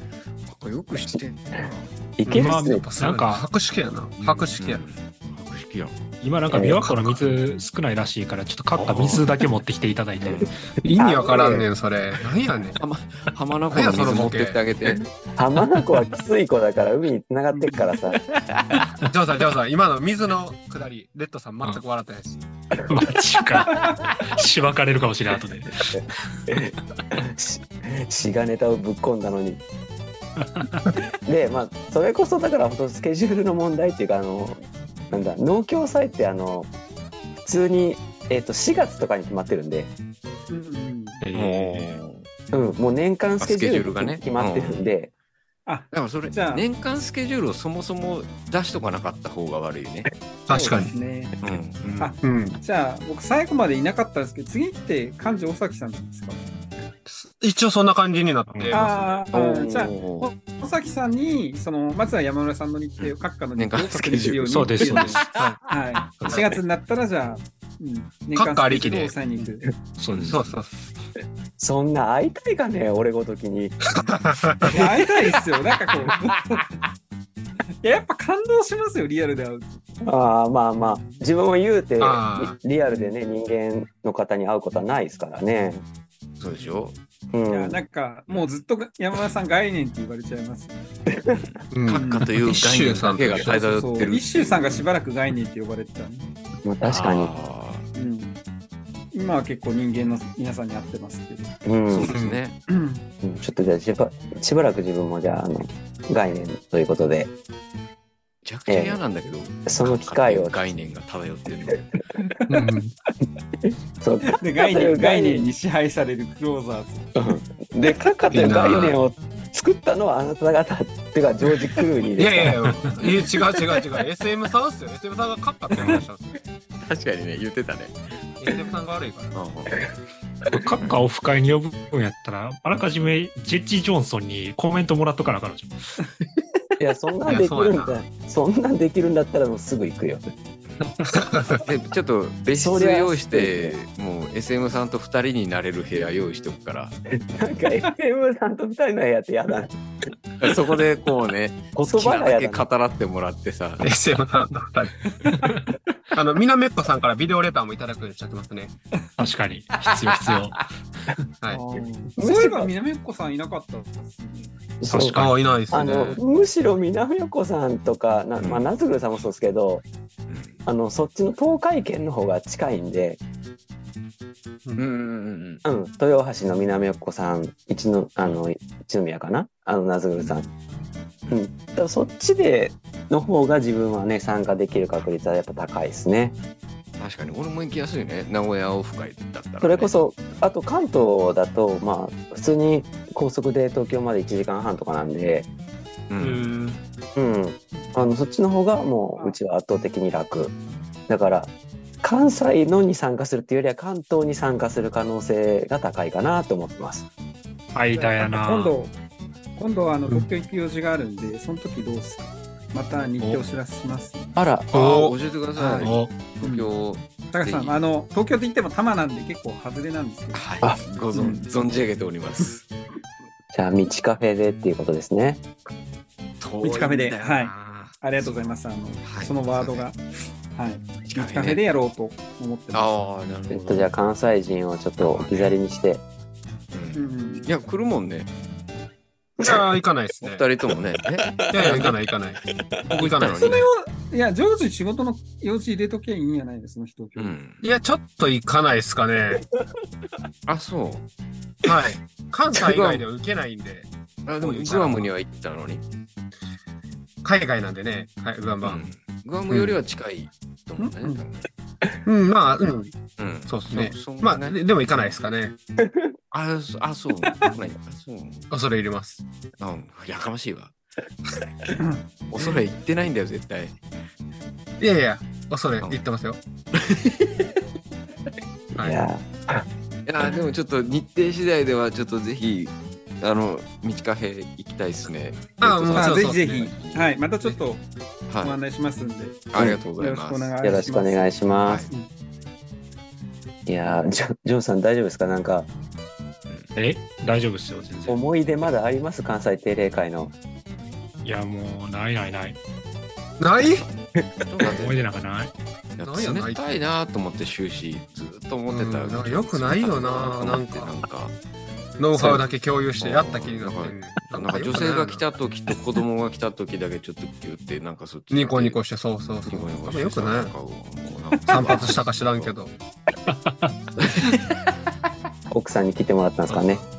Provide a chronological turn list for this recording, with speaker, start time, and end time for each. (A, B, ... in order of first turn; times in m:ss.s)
0:00.5-0:01.9 A
0:02.2-0:02.8 B
0:02.3-0:04.9 C
0:02.3-0:03.5 D
0:04.2-0:06.0 A
0:06.2-0:10.6 D
0:06.5-0:07.2 B
0:08.7-0:09.3 A
0:10.2-0:10.7 A
0:10.4-0:11.7 B
0:10.8-0:12.8 C
0:12.8-0:15.0 A
0:13.7-0:14.6 C
0:15.2-0:18.2 B
0:17.5-0:17.8 E
0:19.1-0:22.4 C
0:22.9-0:25.9 D
0:23.7-0:24.0 E
0:26.5-0:29.6 B
0:30.4-0:30.8 D
0:31.3-0:36.7 B
0:35.1-0:35.4 A
0:37.4-0:39.9 B
0:40.5-0:41.2 E
0:41.2-0:42.0 D
0:41.3-0:42.3 A
0:42.5-0:45.1 B
0:43.4-0:44.9 A
0:45.7-0:46.7 E
0:45.9-0:50.1 A
0:50.5-0:50.9 C
0:50.5-0:51.4 E
0:51.4-0:52.0 A
0:51.8-0:52.2 D
0:52.0-0:56.4 E
0:52.2-0:52.6 C
0:57.1-0:59.3 C
0:58.5-0:58.8 D
0:58.7-1:09.7 E
0:59.3-0:59.9 B
0:59.3-1:00.3 A
1:03.0-1:05.5 A
1:04.5-1:05.2 D
1:05.4-1:05.6 C
1:06.1-1:06.6 A
1:08.4-1:09.5 C
1:10.0-1:10.4 D
1:10.1-1:10.5 A
1:10.3-1:10.7 C
1:11.6-1:13.8 B
1:13.9-1:14.7 C
1:14.6-1:16.8 E
1:17.8-1:19.9 E
1:20.0-1:25.8 B
1:20.8-1:21.2 E
1:22.0-1:22.6 C
1:26.4-1:27.0 A
1:27.3-1:27.8 B
1:27.5-1:30.8 E
1:28.3-1:28.5 A
1:31.1-1:31.5 B
1:31.3-1:34.9 A
1:31.7-1:33.6 C
1:31.9-1:32.4 E
1:33.3-1:36.3 E
1:36.6-1:37.3 B
1:36.8-1:37.9 A
1:38.0-1:38.3 E
1:39.1-1:41.6 E
1:41.6-1:42.1 B
1:41.9-1:42.6 A
1:42.1-1:42.4 C
1:42.7-1:43.0 E
1:43.2-1:47.3 B
1:48.4-1:51.9 A
1:48.7-1:49.0 B
1:49.7-1:50.7 B
1:52.3-1:52.7 E
1:52.5-1:52.9 C
1:53.6-1:55.5 B
1:54.2-1:57.1 E
1:57.2-2:02.6 B
1:58.3-1:59.0 C
2:02.2-2:06.3 C
2:06.8-2:08.0 A
2:08.4-2:09.4 C
2:09.3-2:09.9 A
2:10.5-2:15.9 D
2:16.8-2:20.2 B
2:17.3-2:18.0 C
2:20.7-2:21.0 A
2:21.1-2:21.6 C
2:21.5-2:27.0 A
2:22.5-2:23.8 B
2:27.3-2:29.8 B
2:30.4-2:33.9 A
2:31.8-2:32.7 B
2:33.8-2:35.0 C
2:35.3-2:35.6 E
2:36.1-2:38.8 C
2:39.2-2:40.7 D
2:41.5-2:44.6 E
2:42.2-2:42.7 B
2:44.8-2:49.8 B
2:44.9-2:45.3 D
2:45.2-2:46.2 C
2:48.4-2:48.7 A
2:50.3-2:50.6 A
2:50.6-2:53.2 B
2:54.8-2:55.6 A
2:55.6-3:00.5 B
3:01.3-3:06.4 B
3:07.0-3:09.9 A
3:09.6-3:15.5 B
3:16.1-3:16.5 A
3:16.2-3:16.8 D
3:17.2-3:20.5 B
3:21.1-3:27.1 B
3:27.7-3:28.8 D
3:28.0-3:29.0 E
3:29.6-3:34.4 E
3:34.4-3:34.7 B
3:34.7-3:35.2 C
3:34.7-3:37.8 A
3:35.6-3:36.7 E
3:35.8-3:36.1 D
3:37.3-3:40.6 E
3:40.3-3:42.6 A
3:41.1-3:41.7 E
3:43.5-3:45.4 B
3:46.4-3:48.4 A
3:46.6-3:50.0 E
3:49.0-3:49.9 A
3:50.5-3:52.9 E
3:51.0-3:51.6 A
3:52.7-3:53.9 A
3:53.5-3:56.0 B
3:55.0-3:55.6 A
3:56.7-3:58.3 A
3:56.9-3:57.5 E
3:59.4-4:00.4 C
4:00.2-4:01.9 A
4:01.3-4:01.9 B
4:01.5-4:03.6 C
4:02.9-4:03.7 A
4:03.3-4:07.4 E
4:07.2-4:07.6 A
4:07.6-4:09.4 C
4:10.5-4:11.0 A
4:11.6-4:13.9 C
4:12.6-4:13.0 A
4:14.3-4:15.8 A
4:14.4-4:15.1 C
4:17.2-4:18.8 C
4:18.6-4:21.5 A
4:19.5-4:19.8 C
4:20.8-4:21.2 E
4:22.0-4:22.9 C
4:23.2-4:25.1 A
4:23.5-4:25.6 C
4:25.8-4:26.1 B
4:26.3-4:28.5 A
4:27.2-4:27.6 E
4:28.5-4:29.2 C
4:29.6-4:30.7 A
4:31.8-4:32.0 E
4:32.3-4:33.8 A
4:34.8-4:36.4 C
4:36.7-4:37.5 A
4:38.8-4:39.0 C
4:38.8-4:39.7 B
4:40.1-4:47.1 A
4:45.6-4:46.7 C
4:45.9-4:47.9 E
4:48.3-4:48.6 A
4:48.4-4:52.1 E
4:49.5-4:50.7 A
4:50.6-4:51.9 B
4:53.7-4:55.7 B
4:56.8-4:58.2 D
4:58.1-5:00.3 B
5:01.2-5:02.6 D
5:03.4-5:03.9 C
5:04.4-5:05.0 A
5:04.8-5:05.5 D
5:06.0-5:11.4 A
5:06.0-5:06.6 C
5:08.7-5:11.0 C
5:12.0-5:15.2 C
5:13.0-5:18.8 A
5:18.3-5:20.6 C
5:19.5-5:22.5 A
5:21.5-5:22.7 C
5:23.3-5:23.7 D
5:24.0-5:24.4 A
5:25.5-5:26.8 B
5:26.5-5:26.9 C